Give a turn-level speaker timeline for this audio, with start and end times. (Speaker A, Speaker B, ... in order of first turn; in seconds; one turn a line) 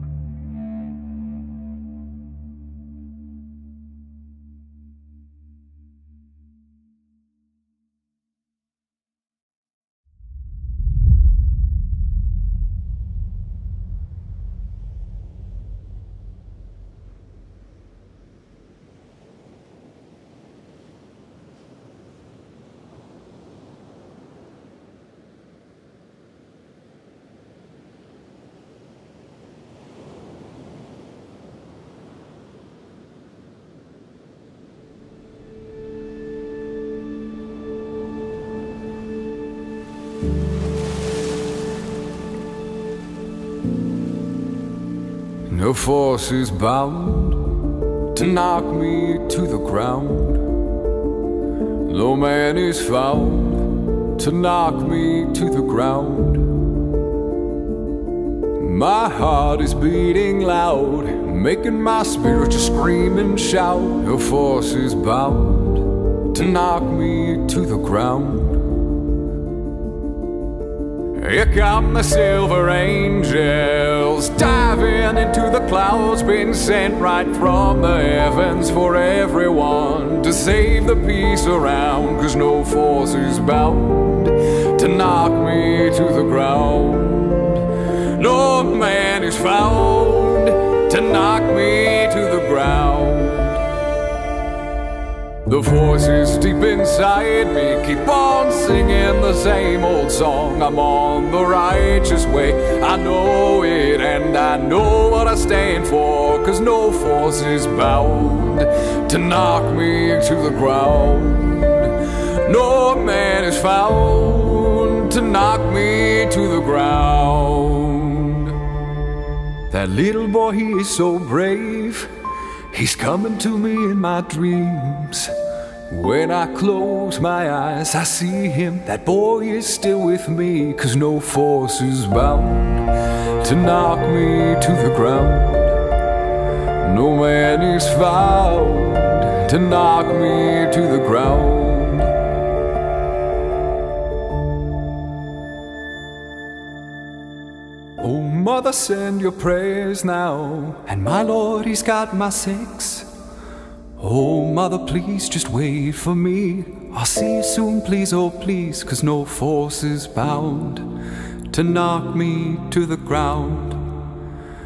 Speaker A: 45.5-50.6
Speaker A: 51.8-56.8
Speaker A: 58.5-68.8
Speaker A: 71.1-93.7
Speaker A: 95.4-118.7
Speaker A: 119.7-122.2
Speaker A: 122.7-135.9
Speaker A: 136.8-142.3
Speaker A: 148.0-153.1
Speaker A: 154.0-160.9
Speaker A: 161.4-164.1